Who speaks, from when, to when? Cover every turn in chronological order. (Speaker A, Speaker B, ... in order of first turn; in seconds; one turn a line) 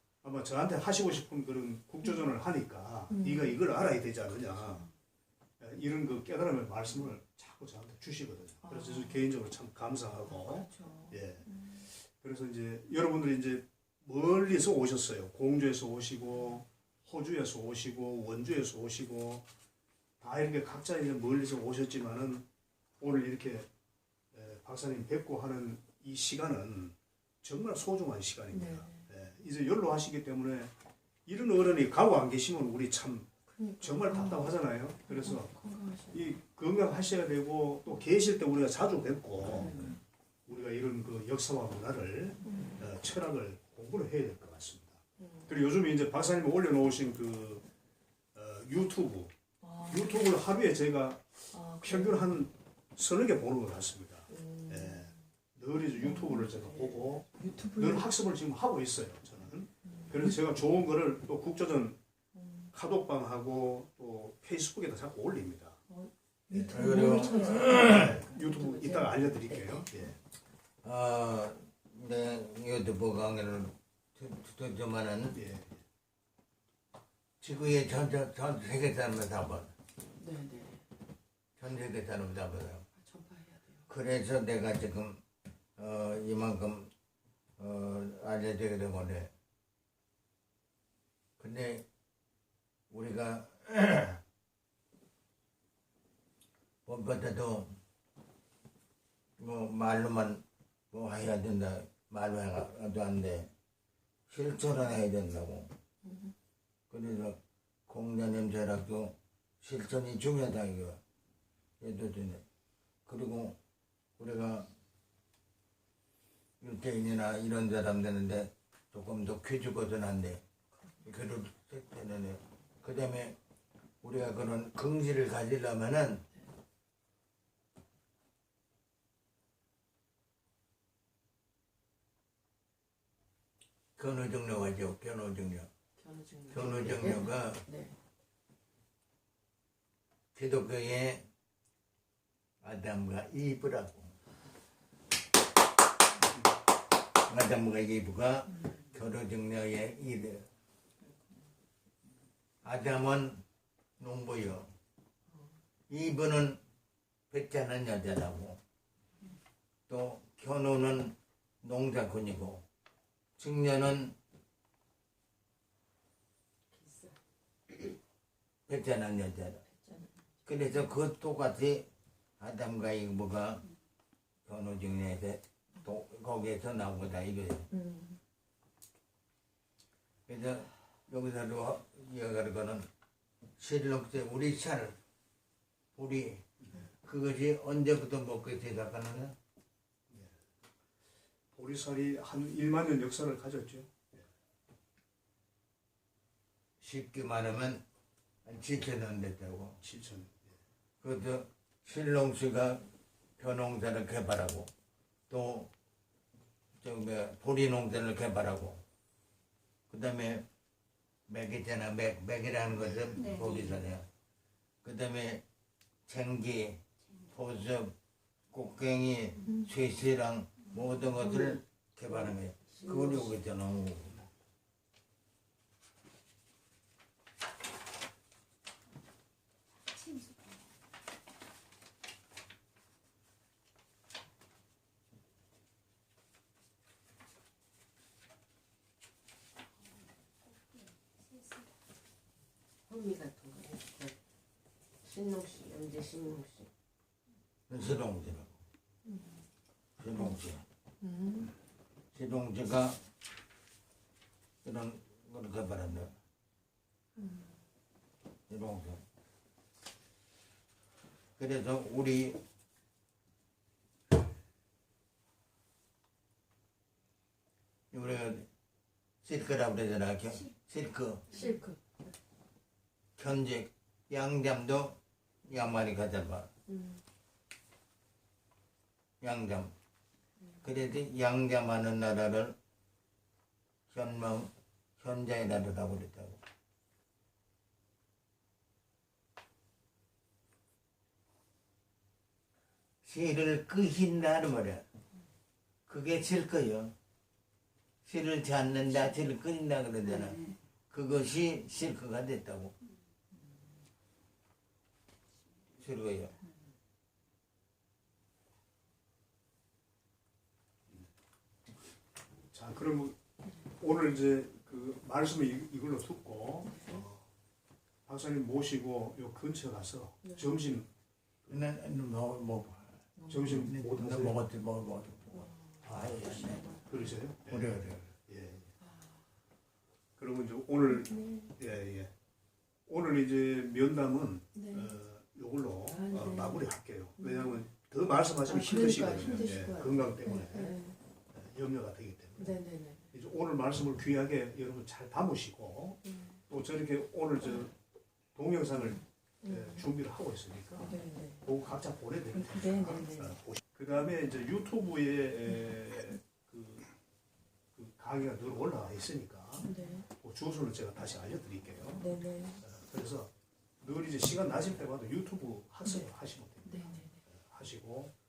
Speaker A: 0.2-4.8
Speaker B: 3.1-3.6
Speaker A: 5.6-19.5
Speaker B: 8.6-9.2
Speaker B: 10.2-11.8
Speaker A: 20.2-22.4
Speaker A: 23.0-23.7
Speaker A: 24.3-30.7
Speaker B: 28.5-29.1
Speaker A: 31.2-35.5
Speaker B: 33.6-36.4
Speaker A: 36.1-39.8
Speaker B: 39.5-40.0
Speaker A: 40.5-47.6
Speaker B: 42.4-42.9
Speaker B: 45.2-45.6
Speaker A: 48.3-49.3
Speaker B: 49.6-50.4
Speaker A: 49.9-62.0
Speaker B: 51.5-52.3
Speaker B: 54.3-55.2
Speaker B: 56.0-58.1
Speaker B: 59.8-60.4
Speaker B: 62.4-62.7
Speaker A: 62.7-65.8
Speaker B: 65.9-69.9
Speaker A: 66.5-70.2
Speaker C: 66.7-68.2
Speaker C: 70.8-75.4
Speaker A: 75.3-75.8
Speaker C: 77.4-79.7
Speaker B: 80.2-80.8
Speaker C: 81.6-82.8
Speaker B: 83.0-83.8
Speaker C: 83.9-85.2
Speaker C: 85.8-86.9
Speaker C: 87.6-89.3
Speaker C: 91.4-91.8
Speaker C: 92.9-94.2
Speaker C: 96.8-97.8
Speaker C: 99.4-103.5
Speaker C: 104.3-105.7
Speaker B: 106.0-106.3
Speaker C: 106.9-111.0
Speaker C: 111.8-112.4
Speaker C: 113.1-113.6
Speaker C: 114.2-114.7
Speaker C: 116.6-120.4
Speaker C: 121.0-123.3
Speaker C: 124.0-126.2
Speaker C: 134.0-135.7
Speaker B: 136.0-137.9
Speaker C: 136.5-137.6
Speaker C: 140.3-141.2
Speaker C: 142.6-144.1
Speaker C: 147.3-150.4
Speaker C: 152.6-153.4
Speaker C: 154.0-154.7
Speaker C: 155.9-156.6
Speaker C: 157.3-158.6
Speaker C: 159.9-162.6
Speaker C: 163.4-164.1
Speaker B: 166.7-167.1
Speaker C: 168.7-169.6
Speaker B: 169.7-170.1
Speaker C: 170.4-171.9
Speaker C: 172.4-173.6
Speaker C: 174.4-177.7
Speaker B: 177.7-178.2
Speaker C: 180.3-182.9
Speaker C: 183.6-184.9
Speaker C: 185.9-186.4
Speaker C: 187.0-189.3
Speaker A: 190.1-190.3
Speaker A: 191.5-194.2
Speaker C: 196.8-197.8
Speaker C: 198.4-199.8
Speaker A: 199.8-200.6
Speaker C: 201.0-202.8
Speaker C: 203.4-204.7
Speaker C: 205.3-205.7
Speaker C: 206.8-208.8
Speaker C: 209.9-210.4
Speaker C: 211.3-214.1
Speaker A: 212.7-213.2
Speaker C: 214.8-215.4
Speaker C: 216.1-216.8
Speaker C: 217.3-217.9
Speaker C: 218.5-224.2
Speaker D: 222.8-223.3
Speaker D: 242.9-244.1
Speaker D: 245.0-246.7
Speaker C: 247.7-248.5
Speaker B: 249.1-249.4
Speaker C: 250.0-250.6
Speaker B: 251.0-251.5
Speaker C: 252.1-253.0
Speaker C: 254.6-256.1
Speaker B: 257.2-257.5
Speaker C: 258.5-259.0
Speaker C: 261.4-262.4
Speaker C: 267.9-268.4
Speaker C: 269.2-271.2
Speaker B: 271.3-271.8
Speaker C: 273.2-276.5
Speaker B: 276.7-277.0
Speaker C: 279.2-279.7
Speaker C: 280.6-282.6
Speaker C: 283.9-286.4
Speaker C: 293.0-294.8
Speaker C: 295.9-296.9
Speaker C: 298.1-302.7
Speaker C: 305.8-306.3
Speaker A: 312.5-313.2
Speaker A: 313.8-317.2
Speaker B: 316.7-317.0
Speaker A: 318.1-320.9
Speaker B: 320.2-320.5
Speaker C: 321.5-322.9
Speaker B: 323.2-323.4
Speaker A: 323.3-324.4
Speaker C: 323.4-326.6
Speaker B: 325.3-326.9
Speaker A: 325.9-326.2
Speaker A: 326.8-328.7
Speaker C: 327.5-328.1
Speaker A: 330.2-332.1
Speaker B: 330.9-331.5
Speaker A: 332.9-340.7
Speaker B: 334.5-334.9
Speaker B: 335.8-337.7
Speaker B: 338.3-340.9
Speaker A: 341.3-342.6
Speaker B: 342.4-343.1
Speaker A: 343.1-347.7
Speaker B: 346.0-346.4
Speaker A: 348.3-350.9
Speaker B: 349.4-350.0
Speaker B: 350.8-351.5
Speaker A: 351.4-356.9
Speaker B: 352.3-353.4
Speaker A: 357.7-362.1
Speaker B: 359.6-360.1
Speaker B: 362.0-362.6
Speaker A: 362.6-368.1
Speaker B: 366.6-367.1